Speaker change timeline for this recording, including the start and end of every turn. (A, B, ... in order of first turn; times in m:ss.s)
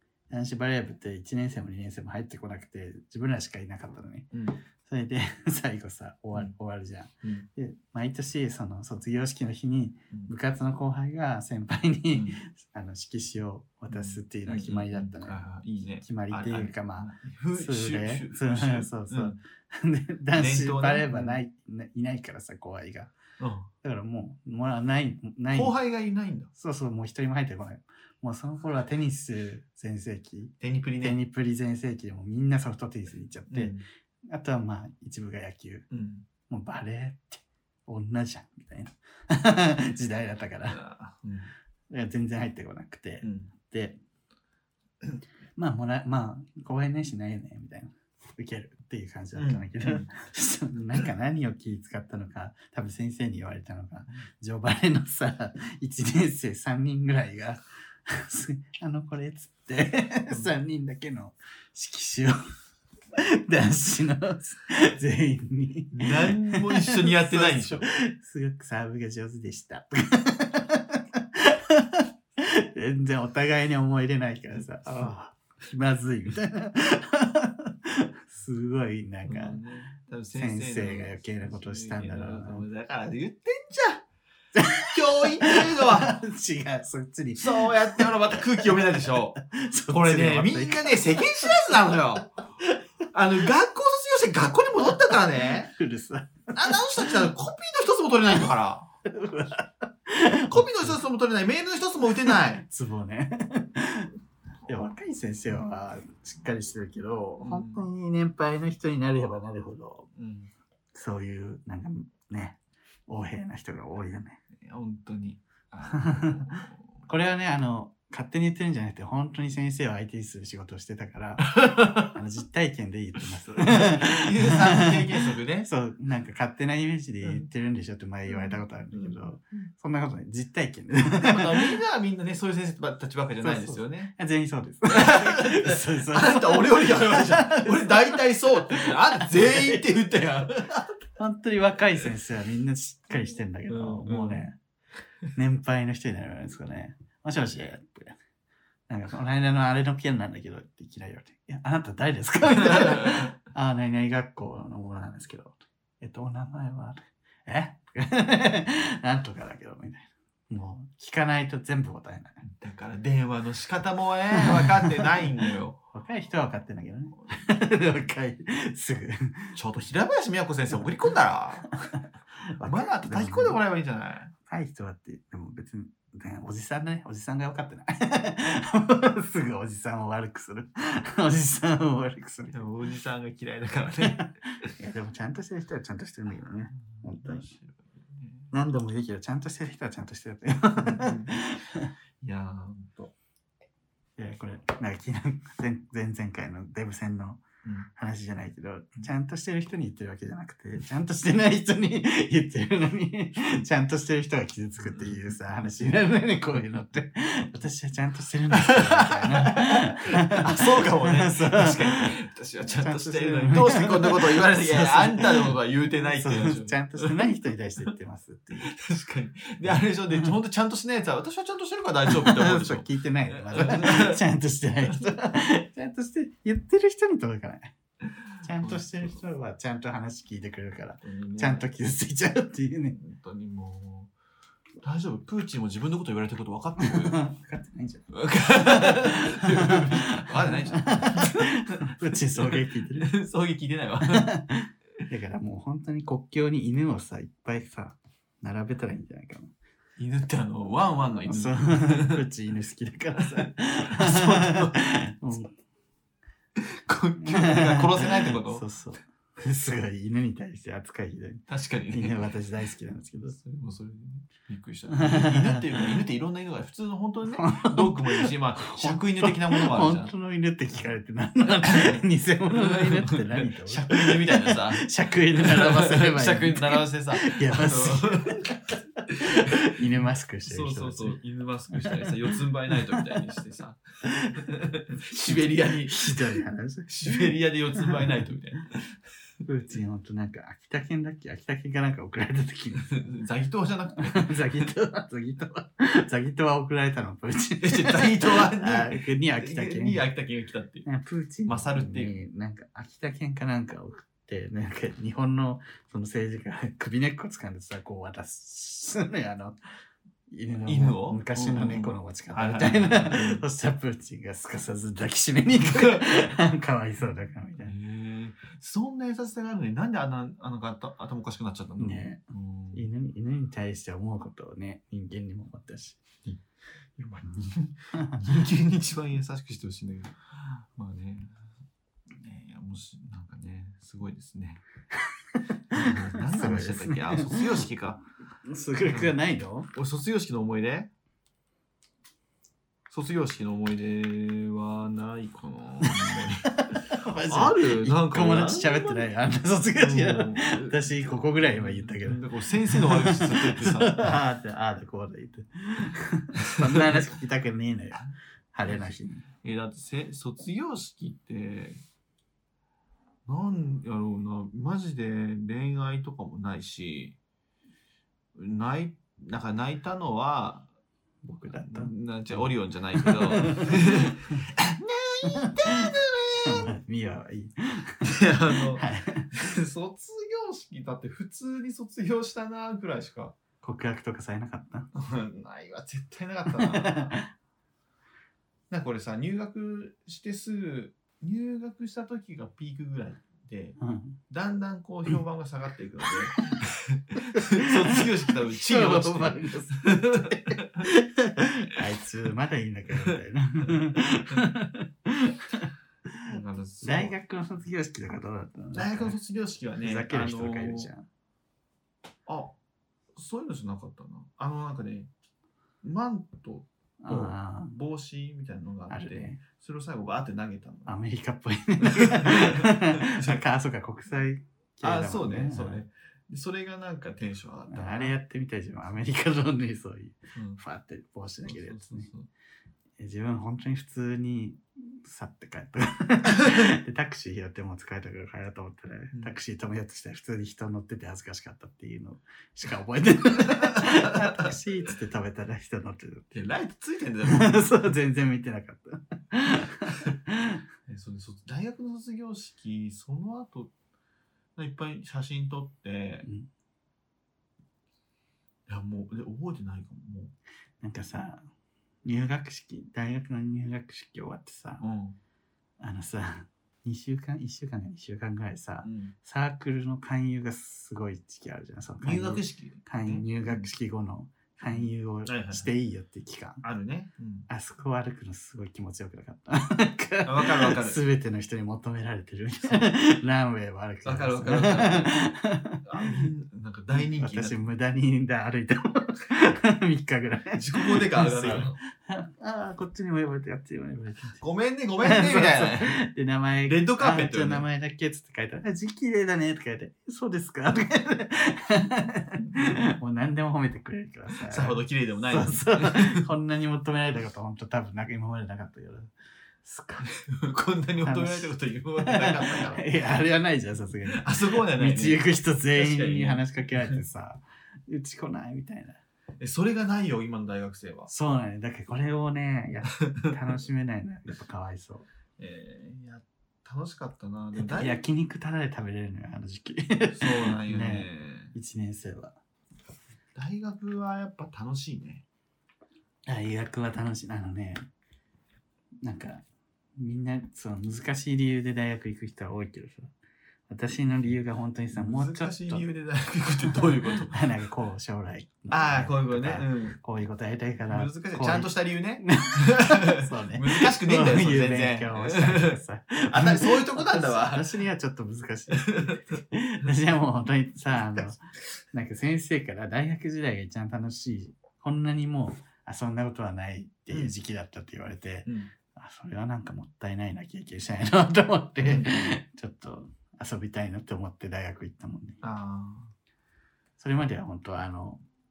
0:00.3-0:04.3 A
0:04.3-0:04.6 B
0:04.8-0:15.4 A
0:12.1-0:12.4 B
0:13.9-0:19.4 B
0:16.0-0:23.2 A
0:20.3-0:21.4 B
0:23.4-0:23.7 B
0:23.8-0:25.8 A
0:25.5-0:26.5 B
0:26.5-0:35.9 A
0:30.6-0:31.2 B
0:33.5-0:33.8 B
0:35.9-0:36.3 B
0:36.5-0:40.8 A
0:40.7-0:41.5 B
0:41.9-0:44.0 A
0:43.2-0:43.5 B
0:45.6-1:02.4 A
0:49.3-0:50.1 B
1:03.2-1:19.6 A
1:05.9-1:07.9 B
1:19.2-1:24.0 B
1:20.3-1:22.6 A
1:24.5-1:31.6 A
1:24.8-1:26.2 B
1:27.4-1:32.3 B
1:33.1-1:35.7 B
1:34.8-1:37.3 A
1:36.5-1:38.9 B
1:39.0-1:41.0 A
1:40.5-1:42.6 B
1:42.2-1:44.1 A
1:44.6-1:50.1 A
1:47.4-1:47.8 B
1:50.1-1:50.5 B
1:50.9-1:54.4 A
1:54.6-1:57.0 B
1:55.9-2:11.7 A
2:01.5-2:02.1 B
2:03.4-2:05.7 B
2:08.3-2:09.7 B
2:11.2-2:14.1 B
2:13.4-2:19.8 A
2:14.9-2:20.9 B
2:21.2-2:24.6 A
2:23.7-2:24.5 B
2:25.3-2:28.2 A
2:28.9-2:42.4 A
2:32.6-2:33.3 B
2:42.4-2:45.8 B
2:44.4-2:45.0 A
2:45.9-2:49.6 A
2:49.5-2:51.7 B
2:52.4-2:53.6 A
2:52.6-2:54.3 B
2:54.4-3:02.7 A
3:02.5-3:04.3 B
3:04.0-3:07.5 A
3:06.7-3:08.5 B
3:08.5-3:11.9 A
3:10.8-3:11.4 B
3:12.2-3:13.1 B
3:14.2-3:32.2 A
3:24.8-3:25.3 B
3:28.6-3:37.3 B
3:32.7-3:35.5 A
3:36.1-3:38.7 A
3:38.6-3:44.2 B
3:39.6-3:40.3 A
3:42.0-3:47.7 A
3:48.4-3:53.0 A
3:48.4-3:49.2 B
3:51.0-3:51.7 B
3:52.9-3:54.1 B
3:54.8-3:57.2 B
3:56.8-4:03.1 A
3:58.1-4:04.3 B
4:04.1-4:09.5 A
4:10.0-4:12.2 B
4:11.2-4:15.5 A
4:13.2-4:14.8 B
4:16.6-4:18.6 B
4:17.2-4:23.4 A
4:21.5-4:22.2 B
4:23.3-4:30.1 B
4:24.9-4:25.9 A
4:27.3-4:41.2 A
4:31.6-4:38.4 B
4:39.3-4:39.8 B
4:40.5-4:43.8 B
4:41.7-4:43.2 A
4:44.1-4:44.4 A
4:44.3-4:48.9 B
4:45.2-4:48.3 A
4:49.4-4:53.1 A
4:52.9-4:54.7 B
4:54.0-5:00.0 A
4:57.6-5:00.8 B
5:00.8-5:09.6 A
5:01.4-5:02.2 B
5:10.3-5:17.7 A
5:10.6-5:13.4 B
5:15.6-5:16.0 B
5:17.6-5:22.9 B
5:21.8-5:22.2 A
5:22.7-5:26.0 A
5:27.0-5:31.3 B
5:27.9-5:28.2 A
5:32.1-5:34.6 B
5:35.3-5:37.6 A
5:35.7-5:38.0 B
5:38.4-5:39.7 A
5:38.8-5:39.2 B
5:39.7-5:40.9 B
5:42.9-5:46.5 B
5:45.8-5:59.2 A
5:47.2-5:49.1 B
5:49.8-5:54.2 B
5:56.6-5:57.0 B
5:58.0-6:01.8 B
6:03.2-6:07.2 B
6:08.3-6:10.7 B
6:11.2-6:14.5 A
6:11.4-6:16.7 B
6:15.2-6:19.3 A
6:18.0-6:23.4 B
6:23.6-6:24.9 A
6:24.9-6:27.2 B
6:26.5-6:27.3 A
6:28.7-6:33.8 B
6:33.8-6:34.2 A
6:34.3-6:40.8 B
6:36.1-6:36.6 A
6:37.2-6:46.3 A
6:46.2-6:47.2 B
6:46.8-6:49.2 A
6:48.7-6:50.9 B
6:49.8-6:51.0 A
6:52.2-6:52.6 B
6:53.1-6:55.1 B
6:55.8-7:00.9 B
6:57.0-6:57.7 A
6:58.9-6:59.4 A
7:00.8-7:05.8 A
7:01.8-7:03.4 B
7:04.8-7:08.1 B
7:07.7-7:12.1 A
7:10.3-7:10.6 B
7:11.4-7:12.3 B
7:13.0-7:26.5 A
7:23.4-7:24.5 B
7:26.3-7:27.7 B
7:27.2-7:30.6 A
7:30.9-7:33.7 B
7:34.6-7:36.3 B
7:38.7-7:40.3 B
7:40.8-7:41.5 A
7:42.0-7:44.8 A
7:44.8-7:45.2 B
7:45.8-7:56.6 A
7:48.8-7:49.1 B
7:52.0-7:53.7 B
7:54.6-7:55.7 B
7:56.6-7:57.5 B
7:57.5-8:06.3 A
8:00.2-8:01.0 B
8:04.0-8:05.2 B
8:05.8-8:07.6 B
8:06.9-8:14.4 A
8:10.5-8:11.8 B
8:14.4-8:16.0 B
8:15.0-8:29.1 A
8:16.6-8:17.6 B
8:24.5-8:26.2 B
8:29.6-8:30.1 A
8:30.1-8:32.9 B
8:31.0-8:39.0 A
8:34.1-8:37.0 B
8:39.4-8:41.1 B
8:41.1-8:45.1 A
8:45.4-8:48.0 B
8:47.6-8:52.3 A
8:50.1-8:51.5 B
8:53.3-8:55.2 B
8:56.3-8:57.9 A
8:59.0-8:59.4 A
9:00.0-9:03.1 A
9:03.7-9:05.8 A
9:04.9-9:07.5 B
9:06.7-9:35.4 A
9:08.7-9:10.0 B
9:10.9-9:15.8 B
9:16.3-9:17.8 B
9:18.7-9:19.4 B
9:20.9-9:21.3 B
9:27.1-9:27.3 B
9:28.4-9:28.7 B
9:31.8-9:32.3 B
9:35.4-9:36.1 B
9:37.0-9:38.2 A